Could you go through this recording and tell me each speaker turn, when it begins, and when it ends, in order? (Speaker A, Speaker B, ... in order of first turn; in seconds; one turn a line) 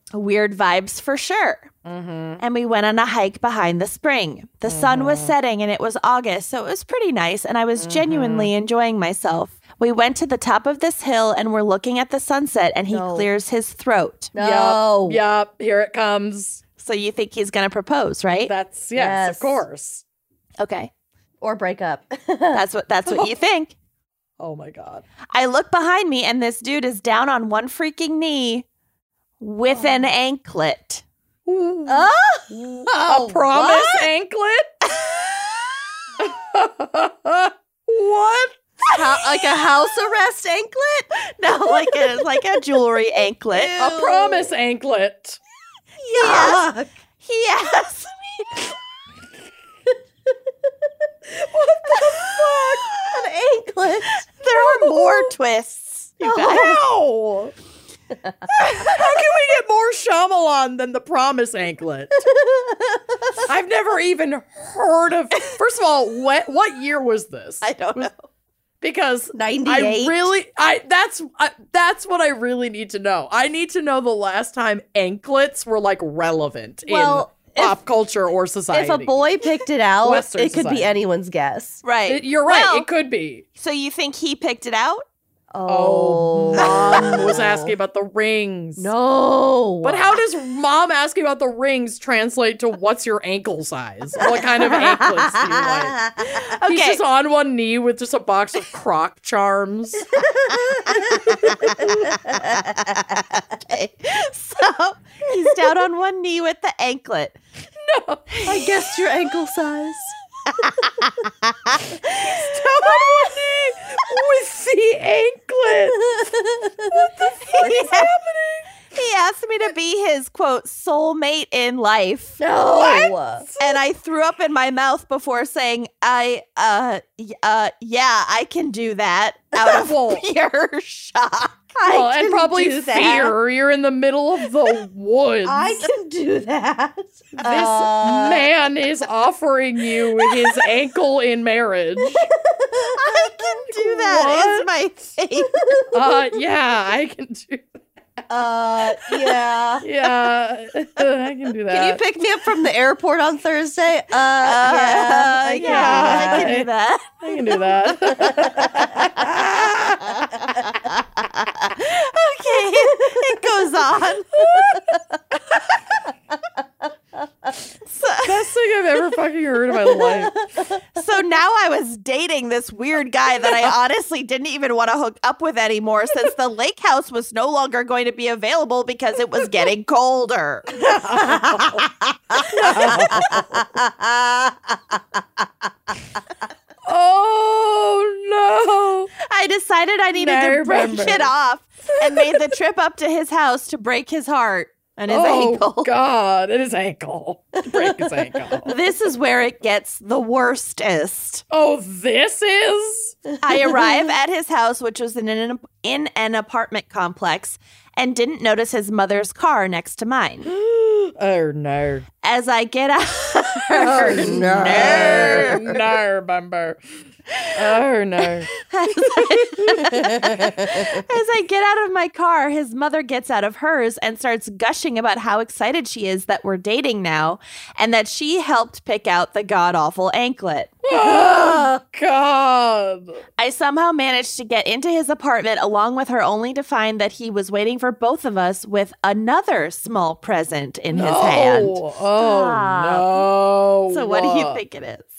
Speaker A: 0.1-1.7
Speaker B: 1.9-2.4
Speaker A: 2.4-14.3
Speaker B: 4.7-5.4
Speaker B: 7.8-8.5
Speaker C: 12.9-13.3
Speaker C: 14.3-15.2
Speaker B: 14.4-16.6
Speaker A: 16.8-18.5
Speaker B: 18.5-20.0
Speaker C: 18.9-19.6
Speaker A: 20.6-20.9
Speaker C: 21.4-22.6
Speaker A: 22.5-23.8
Speaker B: 24.4-25.0
Speaker A: 25.3-28.7
Speaker A: 29.4-31.0
Speaker C: 29.7-30.0
Speaker B: 31.5-34.7
Speaker C: 31.9-34.1
Speaker B: 36.2-38.6
Speaker C: 38.9-42.4
Speaker A: 41.4-43.8
Speaker C: 43.5-44.5
Speaker B: 43.8-45.4
Speaker C: 46.0-46.9
Speaker A: 46.2-46.7
Speaker A: 47.2-48.7
Speaker B: 51.5-52.6
Speaker C: 51.9-54.1
Speaker A: 54.4-56.8
Speaker B: 54.6-55.3
Speaker B: 56.2-57.5
Speaker B: 58.6-62.2
Speaker C: 62.2-63.4
Speaker B: 63.4-68.1
Speaker A: 67.7-68.2
Speaker B: 68.8-79.3
Speaker C: 69.3-70.3
Speaker C: 76.9-77.6
Speaker C: 78.7-81.8
Speaker B: 80.0-81.0
Speaker A: 81.8-82.9
Speaker B: 82.1-83.5
Speaker A: 83.6-85.0
Speaker C: 85.5-87.7
Speaker B: 85.7-88.9
Speaker C: 88.8-90.2
Speaker B: 89.8-100.2
Speaker C: 94.3-96.4
Speaker A: 96.5-97.0
Speaker C: 100.2-101.3
Speaker B: 100.9-102.1
Speaker C: 102.1-103.0
Speaker A: 103.6-107.4
Speaker B: 107.8-108.4
Speaker C: 108.5-110.2
Speaker B: 112.1-116.2
Speaker C: 116.0-117.1
Speaker B: 116.9-118.7
Speaker A: 117.5-118.1
Speaker C: 117.6-118.0
Speaker A: 118.9-122.4
Speaker C: 122.4-123.5
Speaker B: 122.5-123.8
Speaker A: 123.6-131.6
Speaker B: 129.6-130.3
Speaker C: 131.8-133.3
Speaker B: 131.8-135.9
Speaker C: 135.4-138.5
Speaker B: 137.4-142.3
Speaker C: 140.2-140.7
Speaker C: 142.2-143.7
Speaker A: 142.9-145.8
Speaker B: 143.8-144.7
Speaker C: 145.6-146.1
Speaker B: 145.9-147.7
Speaker C: 148.3-149.8
Speaker B: 149.8-152.0
Speaker C: 151.7-156.5
Speaker A: 154.4-157.2
Speaker B: 155.6-156.7
Speaker B: 157.2-160.6
Speaker C: 158.2-158.9
Speaker A: 161.4-164.5
Speaker A: 167.9-168.4
Speaker B: 168.2-170.4
Speaker A: 170.9-180.9
Speaker B: 180.8-181.8
Speaker C: 181.2-185.0
Speaker B: 182.5-183.6
Speaker A: 182.7-183.0
Speaker B: 186.9-189.1
Speaker A: 189.2-195.9
Speaker B: 190.1-191.3
Speaker B: 195.1-198.8
Speaker A: 198.7-201.4
Speaker B: 201.5-203.2
Speaker A: 203.4-210.5
Speaker B: 210.5-212.1
Speaker A: 212.2-215.6
Speaker B: 213.7-216.8
Speaker C: 213.9-215.8
Speaker B: 217.5-218.5
Speaker A: 218.6-230.9
Speaker B: 219.1-220.5
Speaker C: 219.9-221.0
Speaker B: 230.9-233.2
Speaker A: 233.4-241.8
Speaker B: 240.9-244.6
Speaker C: 242.2-243.1
Speaker A: 243.9-245.1